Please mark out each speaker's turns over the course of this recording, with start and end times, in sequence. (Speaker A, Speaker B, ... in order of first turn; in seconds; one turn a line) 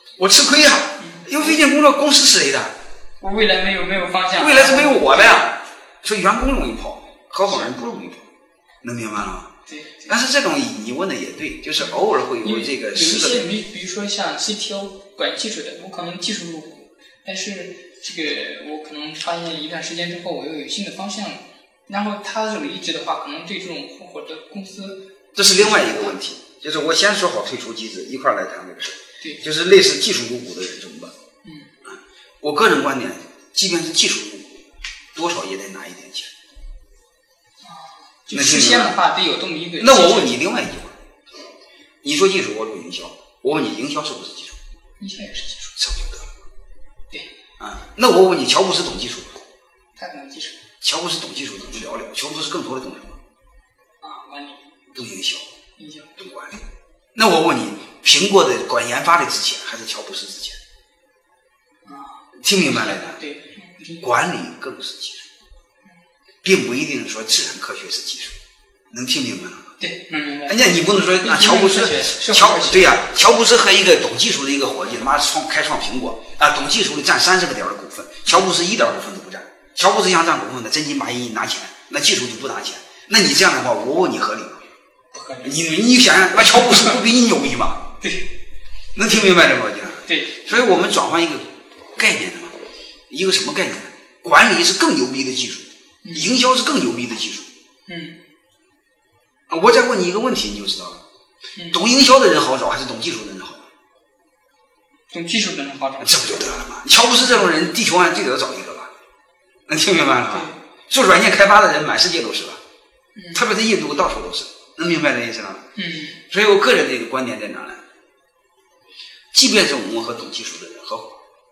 Speaker A: 0.2-2.7
Speaker B: 1.0-1.6
Speaker B: 3.2-5.4
Speaker A: 4.4-8.2
Speaker A: 8.8-9.5
Speaker B: 9.7-10.1
Speaker A: 10.1-13.5
Speaker B: 11.8-25.0
Speaker A: 25.3-31.1
Speaker B: 25.6-26.1
Speaker A: 31.8-36.3
Speaker B: 37.6-40.4
Speaker A: 38.3-39.0
Speaker A: 39.8-41.0
Speaker A: 42.0-44.6
Speaker B: 45.0-45.7
Speaker A: 45.8-46.3
Speaker A: 47.6-49.4
Speaker B: 50.0-50.6
Speaker A: 50.8-53.2
Speaker B: 54.0-54.7
Speaker A: 54.9-55.5
Speaker B: 55.8-56.1
Speaker A: 56.2-56.6
Speaker A: 57.1-60.6
Speaker B: 61.8-64.0
Speaker A: 62.4-63.2
Speaker A: 64.0-65.3
Speaker A: 66.4-68.4
Speaker A: 68.9-69.7
Speaker B: 69.8-73.1
Speaker A: 70.5-84.7
Speaker B: 85.1-85.7
Speaker A: 85.4-87.9
Speaker B: 88.0-88.3
Speaker A: 88.9-92.5
Speaker B: 90.0-90.5
Speaker A: 93.1-97.5
Speaker B: 96.0-96.3
Speaker B: 97.9-98.2
Speaker A: 99.5-101.0
Speaker B: 101.5-101.8
Speaker A: 101.7-103.7
Speaker B: 105.1-106.2
Speaker A: 106.0-108.9
Speaker A: 109.7-112.6
Speaker B: 110.3-110.5
Speaker B: 113.2-113.4
Speaker A: 113.3-115.7
Speaker B: 115.8-116.2
Speaker A: 116.3-117.8
Speaker A: 119.3-121.2